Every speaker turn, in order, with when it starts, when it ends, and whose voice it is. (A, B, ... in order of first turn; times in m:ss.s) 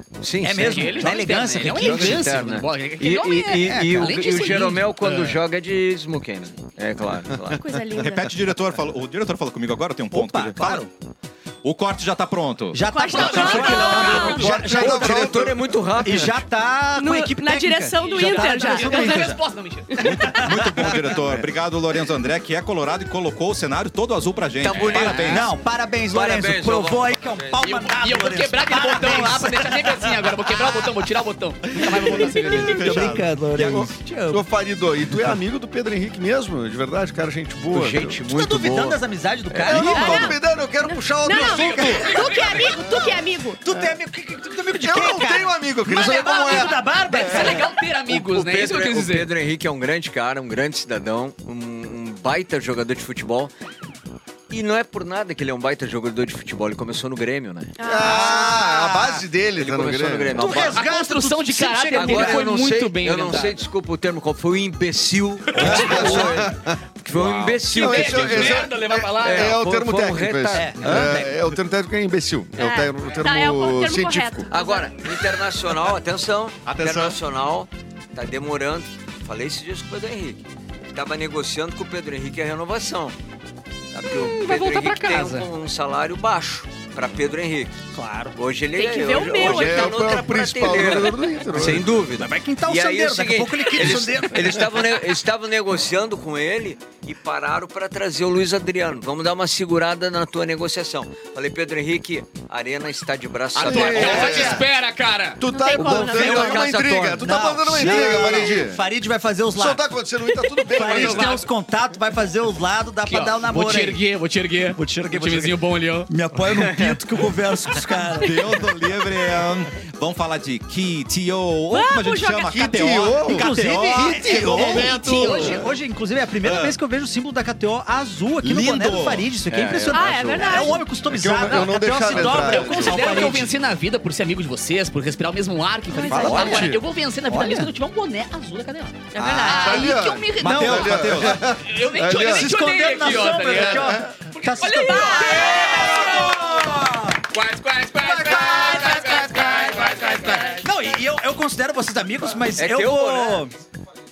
0:00.2-0:07.6 A
0:00.4-0:02.4 B
0:00.6-0:05.4 C
0:03.6-0:04.3 B
0:07.6-0:08.3 D
0:08.0-0:10.9 E
0:10.1-0:10.9 B
0:11.6-0:12.9 E
0:12.7-0:15.5 B
0:12.9-0:14.5 D
0:13.1-0:14.4 C
0:13.4-0:15.7 F
0:13.9-0:16.4 A
0:16.0-0:19.4 B
0:17.0-0:19.3 D
0:18.0-0:20.4 C
0:19.9-0:20.5 D
0:20.0-0:25.5 E
0:20.0-0:21.4 B
0:24.6-0:25.4 A
0:24.7-0:25.4 C
0:24.9-0:30.8 B
0:26.1-0:27.6 A
0:27.6-0:33.1 C
0:31.8-0:34.4 B
0:32.6-0:33.9 E
0:33.6-0:38.2 F
0:37.7-0:39.9 A
0:38.2-0:40.4 B
0:39.6-0:42.2 F
0:39.7-0:43.6 D
0:41.3-0:43.0 C
0:42.9-0:43.1 F
0:43.6-0:47.7 B
0:44.7-0:47.6 F
0:45.9-0:49.3 C
0:48.1-0:53.5 A
0:54.5-0:57.7 A
0:57.8-0:58.5 D
0:57.8-1:00.6 F
0:58.0-0:59.2 B
0:59.6-1:00.8 A
1:00.3-1:02.5 B
1:00.7-1:03.7 C
1:01.9-1:10.9 A
1:05.5-1:06.1 C
1:05.6-1:06.4 B
1:05.6-1:06.8 F
1:07.1-1:07.6 E
1:07.7-1:14.5 F
1:07.7-1:09.6 C
1:10.5-1:11.4 B
1:12.6-1:15.1 D
1:14.5-1:23.2 A
1:16.6-1:17.2 E
1:23.9-1:27.8 A
1:24.1-1:25.5 C
1:27.9-1:28.4 B
1:28.3-1:44.6 A
1:28.7-1:30.2 D
1:29.3-1:31.9 F
1:31.5-1:34.9 B
1:43.6-1:45.4 C
1:43.6-1:44.7 F
1:44.0-1:44.6 B
1:45.4-1:48.8 F
1:45.5-1:46.6 D
1:45.8-1:48.4 A
1:46.2-1:46.5 C
1:47.2-1:49.8 B
1:49.5-1:51.5 F
1:50.7-1:54.0 B
1:50.9-1:51.3 C
1:53.0-1:56.1 C
1:54.7-1:58.6 B
1:58.2-2:04.9 E
2:01.7-2:02.5 D
2:02.5-2:05.6 F
2:03.3-2:13.5 B
2:04.8-2:05.6 C
2:04.9-2:05.5 D
2:06.4-2:06.8 E
2:08.4-2:09.3 E
2:09.5-2:10.1 A
2:09.9-2:10.8 D
2:11.1-2:13.4 F
2:11.5-2:11.8 C
2:12.3-2:26.8 C
2:15.9-2:16.7 D
2:16.1-2:16.8 F
2:16.2-2:16.7 B
2:17.3-2:17.7 B
2:19.1-2:19.9 D
2:19.2-2:19.7 B
2:19.3-2:22.5 F
2:20.4-2:21.6 E
2:20.4-2:21.0 B
2:22.0-2:27.2 B
2:23.1-2:24.1 F
2:24.6-2:26.4 D
2:27.3-2:30.7 C
2:27.9-2:33.5 B
2:30.2-2:30.6 D
2:32.6-2:33.5 A